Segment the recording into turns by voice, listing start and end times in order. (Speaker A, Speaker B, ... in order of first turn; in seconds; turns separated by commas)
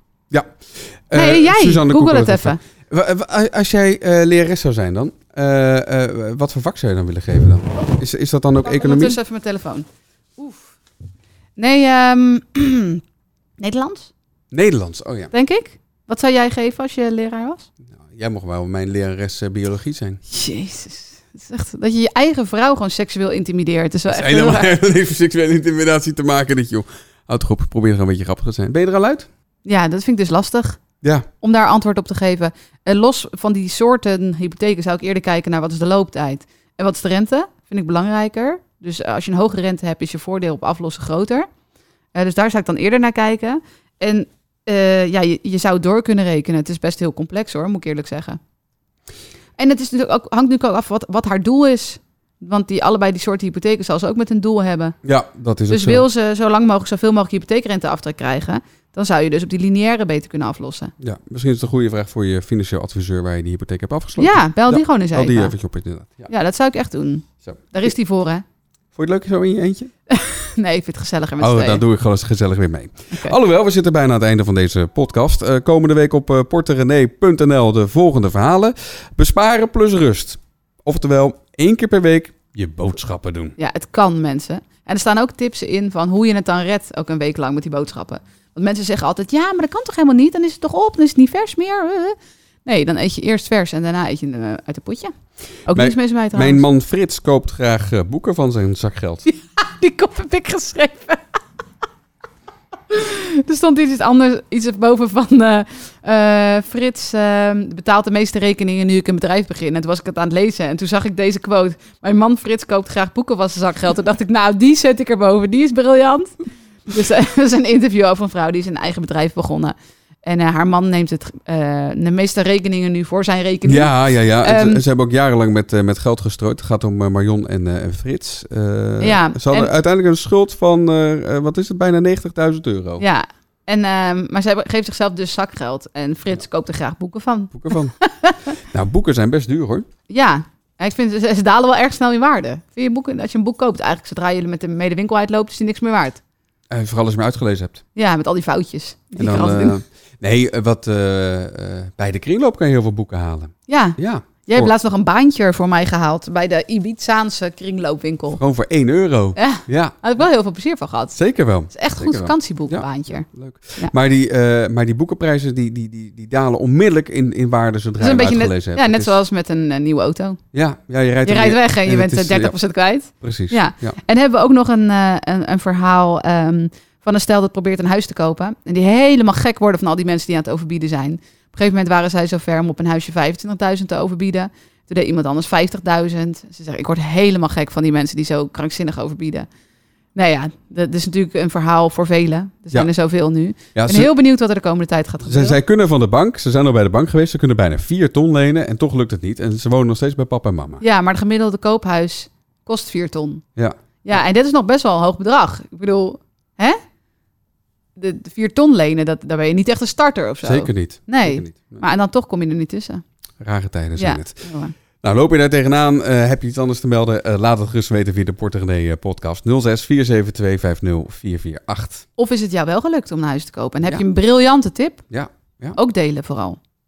Speaker A: 0.3-9.2, Speaker B: 1.1-2.6, Speaker B: 8.6-9.9, Speaker B: 10.4-10.7, Speaker B: 11.6-13.0, Speaker B: 13.6-14.1, Speaker A: 14.5-15.3, Speaker B: 15.3-17.7, Speaker A: 17.9-20.2, Speaker B: 20.3-24.7, Speaker A: 24.1-29.3, Speaker B: 29.6-30.8, Speaker A: 31.0-31.3, Speaker B: 31.4-41.5, Speaker B: 42.1-48.4, Speaker B: 49.6-55.0, Speaker A: 55.0-56.0, Speaker B: 55.7-60.9, Speaker A: 61.0-66.3, Speaker B: 64.2-65.5, Speaker B: 66.3-68.4, Speaker A: 67.4-67.9, Speaker A: 69.0-69.9, Speaker B: 70.1-71.8, Speaker A: 71.4-83.6, Speaker B: 83.6-95.1, Speaker B: 95.7-96.6, Speaker A: 95.7-99.2, Speaker B: 99.3-101.2, Speaker B: 102.9-116.4, Speaker B: 116.9-124.8, Speaker A: 123.7-133.0, Speaker B: 129.0-129.7, Speaker B: 133.0-138.4, Speaker A: 137.5-137.9, Speaker A: 138.6-139.9, Speaker B: 140.1-146.2, Speaker A: 146.7-147.8, Speaker B: 147.9-149.8, Speaker A: 149.2-154.7, Speaker B: 153.7-158.4, Speaker A: 158.4-159.9, Speaker B: 159.4-163.9, Speaker A: 161.1-169.1, Speaker B: 168.0-170.4, Speaker A: 170.5-172.5, Speaker B: 171.2-189.5, Speaker A: 173.2-173.9, Speaker B: 190.1-195.6, Speaker A: 193.8-194.1, Speaker A: 195.2-200.8, Speaker B: 200.8-203.4, Speaker B: 204.0-206.8, Speaker B: 207.9-213.0, Speaker A: 210.4-211.8, Speaker A: 213.4-214.4, Speaker B: 214.0-214.8, Speaker A: 215.0-222.1, Speaker B: 222.2-225.1, Speaker A: 225.1-225.8, Speaker B: 225.8-226.6